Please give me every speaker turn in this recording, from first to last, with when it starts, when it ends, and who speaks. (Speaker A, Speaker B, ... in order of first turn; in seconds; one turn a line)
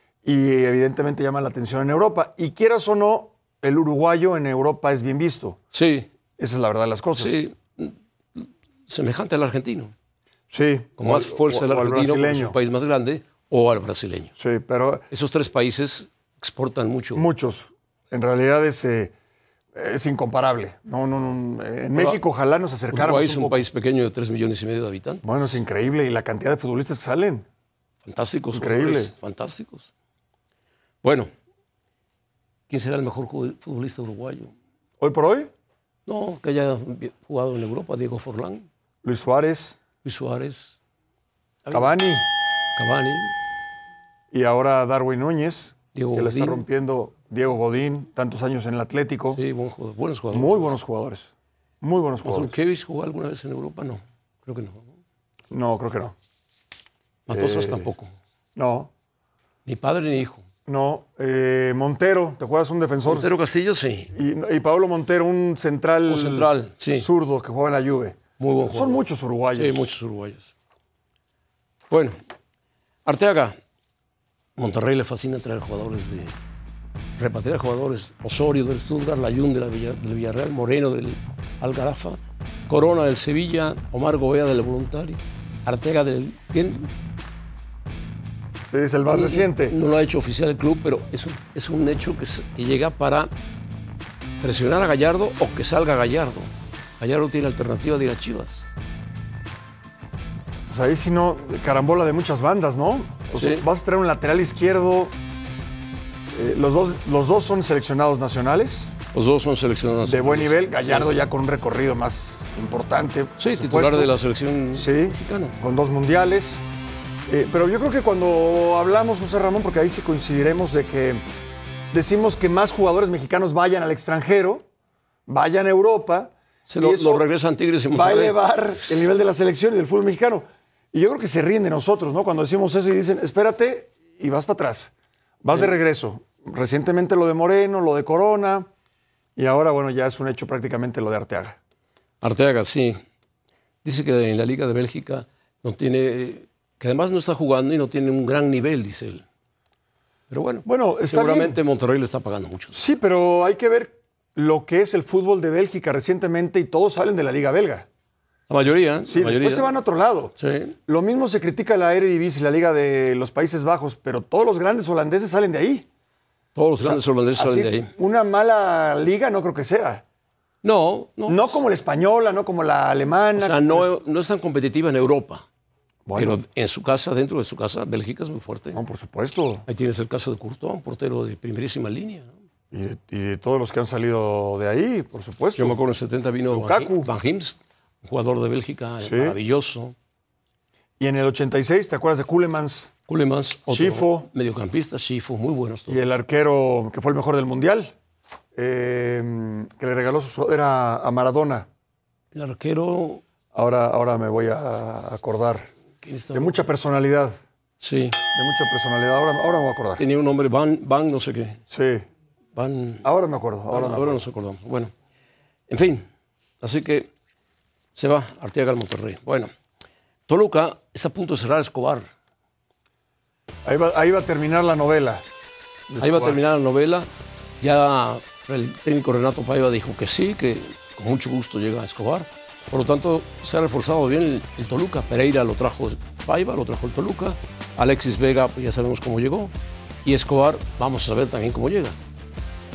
Speaker A: 0.2-5.6
Speaker B: 5.7-6.1
Speaker A: 6.4-7.4
Speaker B: 7.2-9.9
Speaker A: 10.5-12.6
Speaker B: 11.0-14.3
Speaker A: 14.4-15.1
Speaker B: 15.1-17.3
Speaker A: 17.1-19.1
Speaker A: 19.7-23.6
Speaker B: 21.9-22.2
Speaker B: 22.9-25.5
Speaker A: 25.2-27.4
Speaker B: 28.0-29.9
Speaker A: 28.5-29.1
Speaker B: 31.0-31.3
Speaker B: 32.7-34.5
Speaker A: 35.0-35.5
Speaker B: 36.0-38.7
Speaker A: 39.0-39.8
Speaker B: 40.0-40.8
Speaker B: 41.6-41.9
Speaker A: 41.7-42.2
Speaker B: 42.8-43.3
Speaker A: 44.3-49.4
Speaker B: 45.9-46.6
Speaker B: 49.3-50.7
Speaker A: 50.3-51.3
Speaker A: 51.8-52.5
Speaker B: 52.2-54.9
Speaker A: 55.5-56.1
Speaker B: 57.3-58.1
Speaker A: 57.3-57.9
Speaker A: 58.5-58.9
Speaker B: 59.6-60.4
Speaker A: 60.7-63.3
Speaker B: 63.0-64.1
Speaker A: 64.1-69.9
Speaker B: 66.0-67.1
Speaker B: 68.4-69.0
Speaker B: 69.5-70.5
Speaker B: 71.9-72.2
Speaker B: 73.0-73.6
Speaker B: 74.5-76.3
Speaker B: 77.2-86.9
Speaker A: 88.7-89.8
Speaker B: 89.1-93.3
Speaker B: 94.4-98.6
Speaker A: 100.7-105.2
Speaker B: 103.3-103.6
Speaker A: 106.3-108.9
Speaker B: 109.1-111.1
Speaker A: 110.0-114.1
Speaker B: 113.4-115.6
Speaker A: 114.7-116.6
Speaker A: 117.3-121.2
Speaker A: 121.9-124.6
Speaker A: 125.3-127.2
Speaker B: 126.7-129.0
Speaker A: 127.9-134.9
Speaker A: 135.4-138.7
Speaker A: 139.3-141.6
Speaker B: 142.2-143.0
Speaker B: 143.8-149.2
Speaker B: 150.3-152.8
Speaker A: 150.7-151.6
Speaker A: 152.7-157.8
Speaker B: 158.5-159.7
Speaker A: 159.1-160.3
Speaker B: 160.4-160.8
Speaker A: 160.9-165.9
Speaker B: 166.5-167.9
Speaker A: 166.8-170.0
Speaker B: 170.6-171.6
Speaker A: 171.3-173.9
Speaker B: 173.3-175.4
Speaker A: 176.1-176.4
Speaker B: 176.2-178.8
Speaker A: 178.7-179.6
Speaker B: 179.7-182.3
Speaker A: 182.7-185.8
Speaker B: 185.6-189.9
Speaker A: 186.5-187.1
Speaker A: 189.0-189.4
Speaker A: 191.0-192.9
Speaker B: 193.1-196.1
Speaker A: 193.7-194.3
Speaker A: 195.9-197.9
Speaker A: 198.5-201.7
Speaker B: 202.3-203.2
Speaker A: 203.5-205.7
Speaker B: 206.0-206.7
Speaker A: 206.3-207.4
Speaker B: 207.8-208.2
Speaker A: 208.3-210.0
Speaker B: 210.0-211.6
Speaker A: 211.7-212.0
Speaker B: 212.6-213.1
Speaker A: 213.0-214.2
Speaker B: 213.7-214.9
Speaker B: 215.7-216.1
Speaker B: 216.6-217.1
Speaker B: 217.9-219.5
Speaker B: 220.3-222.1
Speaker A: 223.6-225.2
Speaker A: 225.9-226.4
Speaker B: 226.0-227.1
Speaker B: 227.6-239.5
Speaker B: 240.0-242.0